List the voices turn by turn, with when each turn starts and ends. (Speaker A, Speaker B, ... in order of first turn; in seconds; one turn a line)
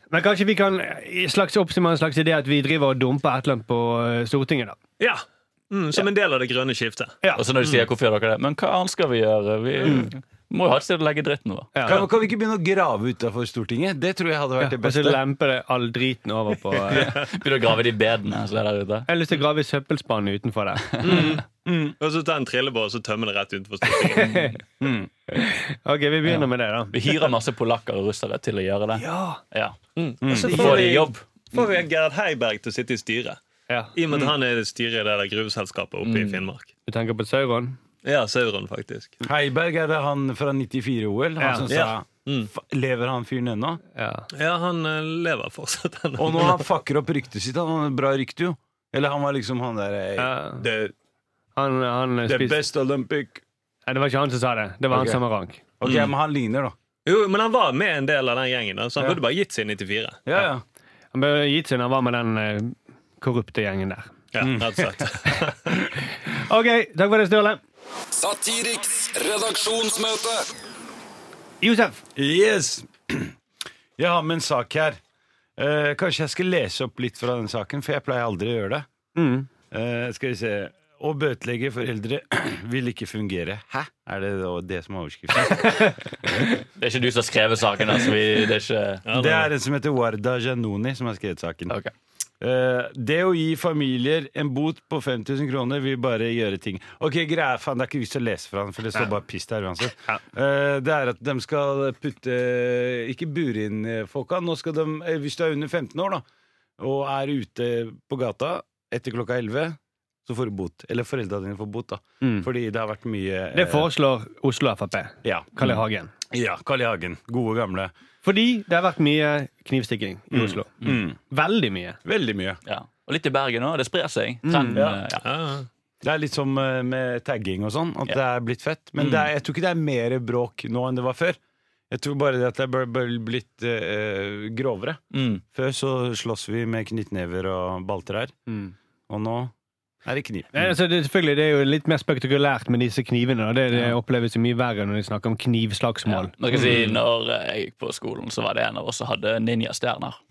Speaker A: 0.1-4.8
Speaker B: 5.0-7.8
Speaker C: 7.3-12.0
Speaker A: 11.7-12.0
Speaker D: 11.8-15.2
Speaker A: 14.6-17.1
Speaker C: 16.9-19.1
Speaker A: 19.1-21.2
Speaker B: 21.0-21.4
Speaker C: 21.0-21.3
Speaker D: 21.1-21.9
Speaker B: 22.0-24.4
Speaker A: 24.1-24.6
Speaker D: 24.8-25.1
Speaker A: 25.3-27.3
Speaker C: 26.2-31.2
Speaker A: 29.0-29.4
Speaker B: 30.0-33.4
Speaker D: 30.2-31.1
Speaker B: 34.0-36.7
Speaker C: 36.0-36.4
Speaker A: 36.9-37.8
Speaker B: 38.0-39.1
Speaker D: 39.2-43.8
Speaker A: 41.4-41.7
Speaker B: 41.7-42.5
Speaker A: 44.0-44.3
Speaker B: 44.3-46.6
Speaker D: 46.2-50.9
Speaker A: 50.2-50.6
Speaker A: 51.5-52.6
Speaker D: 52.3-53.4
Speaker A: 53.9-55.6
Speaker D: 54.9-55.2
Speaker D: 55.8-56.7
Speaker B: 55.8-56.1
Speaker B: 57.0-60.2
Speaker D: 60.2-60.6
Speaker A: 61.1-64.1
Speaker B: 64.3-65.8
Speaker D: 64.4-65.0
Speaker A: 66.3-67.6
Speaker E: 68.1-70.5
Speaker A: 71.6-72.0
Speaker D: 72.2-73.3
Speaker D: 74.0-75.0
Speaker D: 75.6-78.8
Speaker A: 79.2-79.5
Speaker D: 79.7-86.4
Speaker A: 85.5-85.9
Speaker C: 86.8-89.0
Speaker B: 89.0-89.5
Speaker D: 89.1-91.7
Speaker C: 91.7-91.9
Speaker D: 92.4-106.2
Speaker D: 106.8-113.9
Speaker A: 112.2-112.5
Speaker A: 113.5-116.1
Speaker D: 115.2-115.5
Speaker D: 116.3-117.9
Speaker A: 118.2-120.7
Speaker D: 120.3-121.2
Speaker A: 121.2-122.0
Speaker D: 122.0-122.6
Speaker C: 122.6-125.2
Speaker A: 124.4-124.8
Speaker D: 124.7-125.0
Speaker B: 125.2-125.7
Speaker D: 126.0-131.4
Speaker C: 129.0-129.3
Speaker D: 131.9-138.3
Speaker C: 135.1-135.4
Speaker A: 138.5-138.7
Speaker D: 139.1-139.5
Speaker D: 140.0-140.7
Speaker A: 140.5-146.3
Speaker C: 146.1-150.2